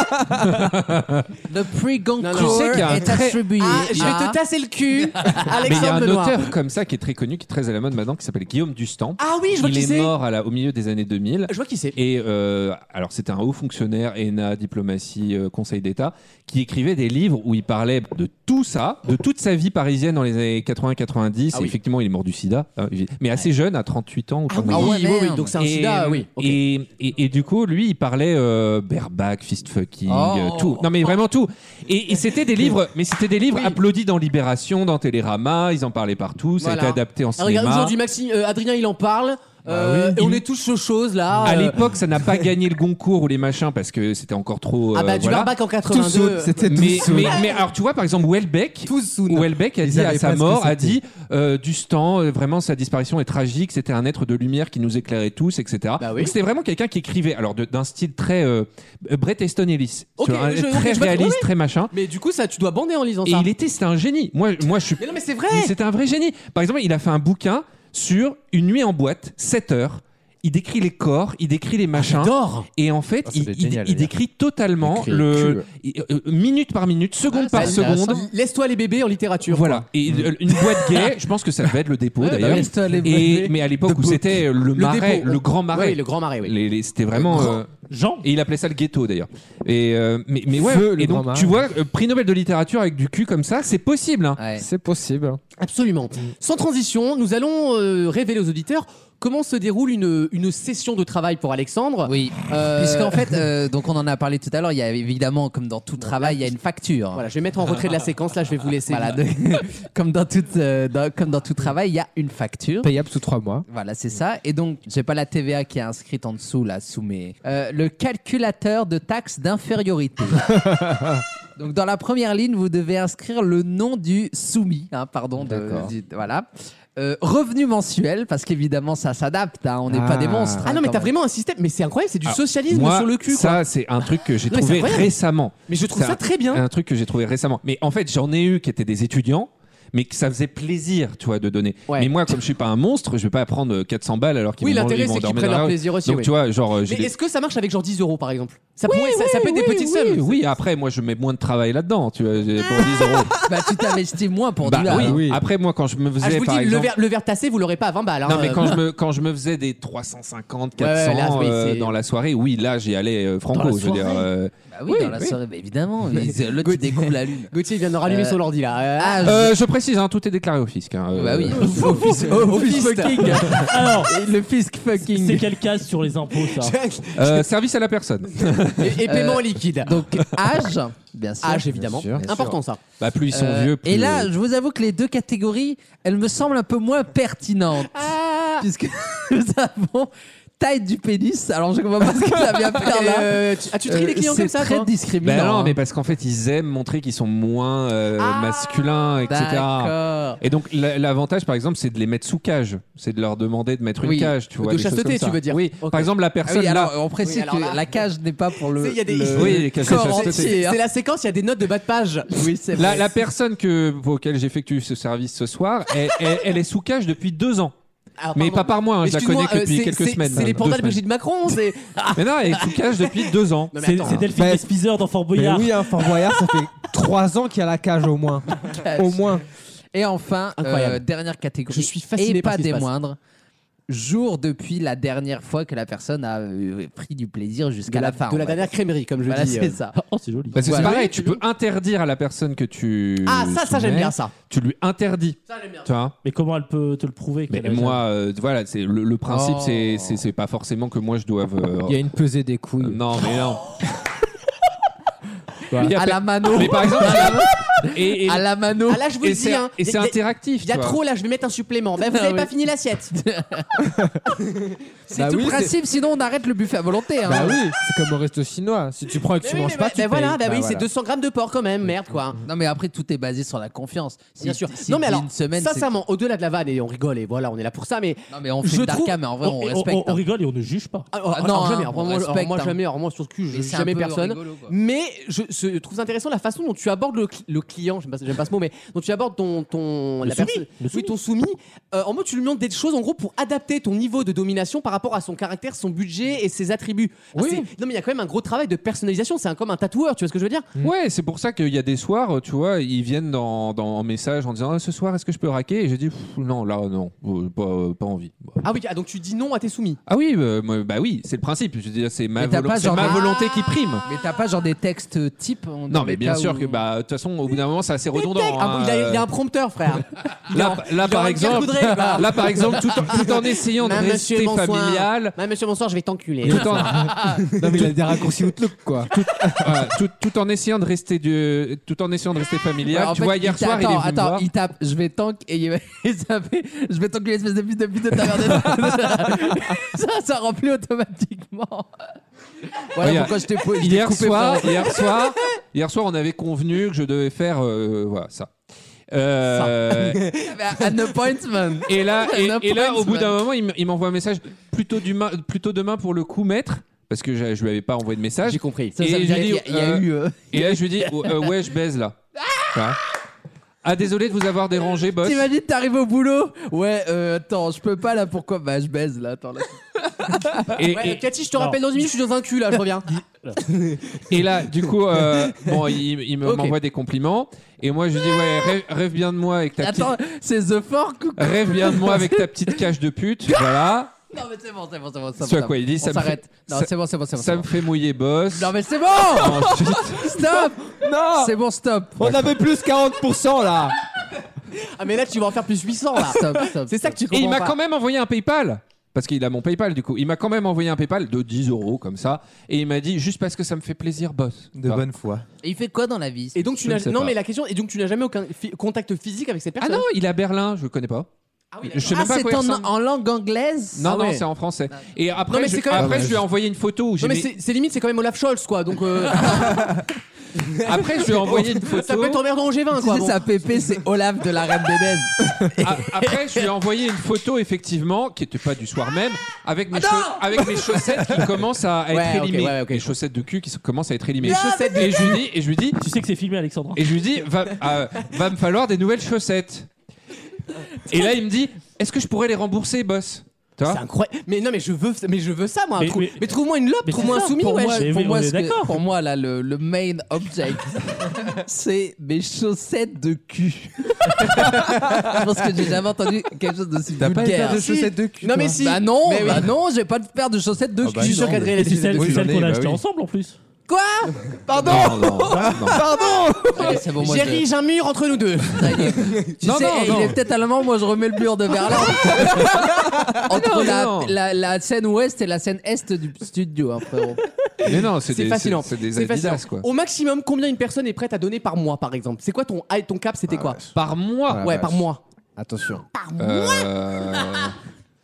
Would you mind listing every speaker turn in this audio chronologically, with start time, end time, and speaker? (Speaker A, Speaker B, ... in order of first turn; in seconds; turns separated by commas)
Speaker A: 0.4-1.3, Speaker B: 1.5-4.4, Speaker C: 2.2-6.5, Speaker A: 2.3-4.2, Speaker B: 5.2-5.8, Speaker A: 5.5-25.0, Speaker C: 9.2-10.1, Speaker C: 11.5-11.9, Speaker C: 24.5-26.6, Speaker B: 24.6-25.5, Speaker A: 25.6-37.9, Speaker B: 30.1-30.9, Speaker C: 36.6-42.2, Speaker D: 39.8-40.4, Speaker A: 41.4-45.5, Speaker C: 44.9-47.5, Speaker D: 45.8-47.4, Speaker A: 46.6-61.9, Speaker E: 48.9-51.0, Speaker C: 56.0-56.3, Speaker C: 60.2-63.5, Speaker A: 63.2-78.3, Speaker C: 65.0-65.7, Speaker C: 72.0-72.7, Speaker E: 73.2-74.1, Speaker D: 74.8-75.6, Speaker C: 77.3-79.9, Speaker A: 79.5-87.7, Speaker C: 80.8-81.0, Speaker C: 82.2-83.5, Speaker D: 82.5-83.3, Speaker C: 84.8-86.5, Speaker C: 87.2-87.5, Speaker F: 87.9-88.2, Speaker A: 88.2-94.4, Speaker D: 90.5-91.6, Speaker B: 94.4-94.6, Speaker D: 94.6-95.4, Speaker C: 95.6-103.2, Speaker B: 102.0-107.2, Speaker C: 106.0-106.5, Speaker C: 107.1-109.2, Speaker B: 108.9-112.9, Speaker D: 112.8-113.6, Speaker B: 113.7-120.6, Speaker D: 120.5-121.2, Speaker B: 121.5-131.1, Speaker D: 125.4-125.9, Speaker D: 129.9-130.7, Speaker C: 130.6-133.6, Speaker A: 132.2-147.1, Speaker C: 134.5-135.1, Speaker C: 135.7-136.6, Speaker C: 141.9-142.3, Speaker C: 144.6-146.3, Speaker C: 146.8-150.4, Speaker A: 148.9-153.3, Speaker B: 153.4-155.2, Speaker A: 154.6-156.9, Speaker D: 154.8-155.4, Speaker C: 156.2-158.8, Speaker A: 158.2-165.1, Speaker C: 160.8-161.9, Speaker F: 163.5-164.2, Speaker B: 164.7-167.5, Speaker C: 166.6-169.4, Speaker B: 168.0-168.4, Speaker B: 169.0-169.5, Speaker A: 169.2-171.9, Speaker B: 171.1-175.5, Speaker C: 171.7-173.7, Speaker F: 173.5-174.1, Speaker F: 175.0-176.8, Speaker C: 176.5-177.4, Speaker A: 177.1-179.1, Speaker C: 178.7-180.0, Speaker B: 179.0-181.7, Speaker C: 181.4-182.8, Speaker D: 181.7-182.6, Speaker A: 183.0-184.3, Speaker B: 183.3-195.8, Speaker C: 187.9-188.7, Speaker C: 192.6-194.9, Speaker A: 195.2-206.9, Speaker C: 198.2-198.6, Speaker B: 199.3-200.4, Speaker B: 204.0-204.3, Speaker C: 204.5-206.1, Speaker B: 206.4-210.8, Speaker C: 207.2-207.8, Speaker C: 208.8-212.6, Speaker A: 209.3-210.6, Speaker B: 212.3-213.2, Speaker A: 212.8-217.7, Speaker C: 218.2-222.2, Speaker A: 218.3-221.0, Speaker A: 222.1-224.2, Speaker C: 223.7-224.3, Speaker F: 223.8-225.9, Speaker D: 224.3-224.8, Speaker D: 225.3-229.4, Speaker B: 229.9-233.2, Speaker C: 230.6-231.0, Speaker C: 231.7-232.9, Speaker B: 233.9-238.7, Speaker C: 237.9-239.8, Speaker B: 239.3-239.9, Speaker F: 239.9-240.6, Speaker B: 240.5-241.2, Speaker A: 240.5-246.2, Speaker C: 243.2-244.3, Speaker C: 245.5-245.9, Speaker F: 246.2-248.0, Speaker A: 247.5-252.0, Speaker D: 249.3-249.8, Speaker D: 251.8-253.0, Speaker A: 252.8-253.7, Speaker A: 255.8-258.5, Speaker B: 255.9-259.0, Speaker C: 258.9-263.1, Speaker A: 259.2-261.0, Speaker B: 262.0-262.5, Speaker B: 263.1-264.0, Speaker C: 264.4-265.5, Speaker D: 265.1-265.7, Speaker B: 265.1-267.6, Speaker D: 267.2-270.9, Speaker C: 269.4-272.4, Speaker B: 272.4-275.9, Speaker C: 274.4-279.2, Speaker B: 278.3-280.2, Speaker F: 279.4-281.1, Speaker C: 281.1-300.7, Speaker B: 281.2-282.8, Speaker B: 283.5-284.8, Speaker F: 290.2-291.1, Speaker D: 297.4-297.6, Speaker A: 300.8-308.6, Speaker C: 308.6-310.0, Speaker A: 310.1-314.1, Speaker B: 312.4-313.3, Speaker B: 314.0-316.8, Speaker A: 315.9-319.2, Speaker C: 318.1-327.9, Speaker A: 320.5-325.4, Speaker D: 326.4-329.8, Speaker A: 326.4-327.2, Speaker A: 329.6-334.5, Speaker B: 332.9-341.9, Speaker B: 342.9-345.0, Speaker A: 343.0-348.5, Speaker A: 349.1-350.2, Speaker C: 349.6-350.5, Speaker B: 350.4-353.4, Speaker A: 351.9-362.2, Speaker C: 358.4-359.0, Speaker B: 358.9-361.3, Speaker A: 362.7-363.0, Speaker A: 363.8-365.5, Speaker B: 365.2-370.7, Speaker A: 370.7-371.2, Speaker C: 370.9-374.2, Speaker A: 374.3-380.1, Speaker C: 375.2-375.7, Speaker C: 376.4-376.8, Speaker B: 379.8-382.7, Speaker A: 381.4-384.1, Speaker B: 384.3-387.7, Speaker A: 385.4-388.7, Speaker B: 388.5-392.3, Speaker A: 389.2-390.4, Speaker D: 391.0-391.5, Speaker D: 392.2-394.0, Speaker C: 394.8-397.7, Speaker B: 396.2-397.2, Speaker A: 397.3-405.1, Speaker E: 404.7-405.4, Speaker B: 405.6-406.8, Speaker C: 406.5-410.0, Speaker A: 406.8-407.3, Speaker A: 409.8-411.3, Speaker C: 411.7-412.4, Speaker A: 411.9-412.9, Speaker B: 412.1-414.1, Speaker A: 413.9-417.5, Speaker C: 414.0-414.4, Speaker C: 415.5-416.4, Speaker D: 415.9-416.4, Speaker C: 417.2-419.9, Speaker C: 420.6-423.4, Speaker A: 420.7-422.4, Speaker B: 422.9-425.9, Speaker A: 425.8-436.0, Speaker C: 430.1-430.3, Speaker C: 432.1-433.1, Speaker C: 434.4-435.4, Speaker F: 436.0-437.0, Speaker A: 436.9-439.9, Speaker A: 441.1-444.0, Speaker C: 443.9-448.0, Speaker F: 446.0-446.5, Speaker F: 447.0-448.9, Speaker B: 447.2-457.9, Speaker E: 454.5-455.1, Speaker E: 457.2-458.8, Speaker C: 457.4-459.7, Speaker B: 458.8-461.7, Speaker E: 461.0-463.0, Speaker C: 461.2-462.5, Speaker F: 461.7-463.6, Speaker B: 463.9-464.4, Speaker D: 464.7-465.0, Speaker A: 464.8-466.0, Speaker E: 464.8-466.6, Speaker D: 466.0-466.7, Speaker B: 466.7-467.7, Speaker C: 466.8-469.6, Speaker B: 468.7-477.4, Speaker A: 469.6-470.4, Speaker A: 473.3-474.3, Speaker C: 477.8-483.8, Speaker A: 477.8-479.9, Speaker D: 483.5-483.9, Speaker A: 483.9-484.7, Speaker D: 484.5-485.1, Speaker C: 484.6-485.2, Speaker D: 485.6-486.1, Speaker A: 486.4-487.8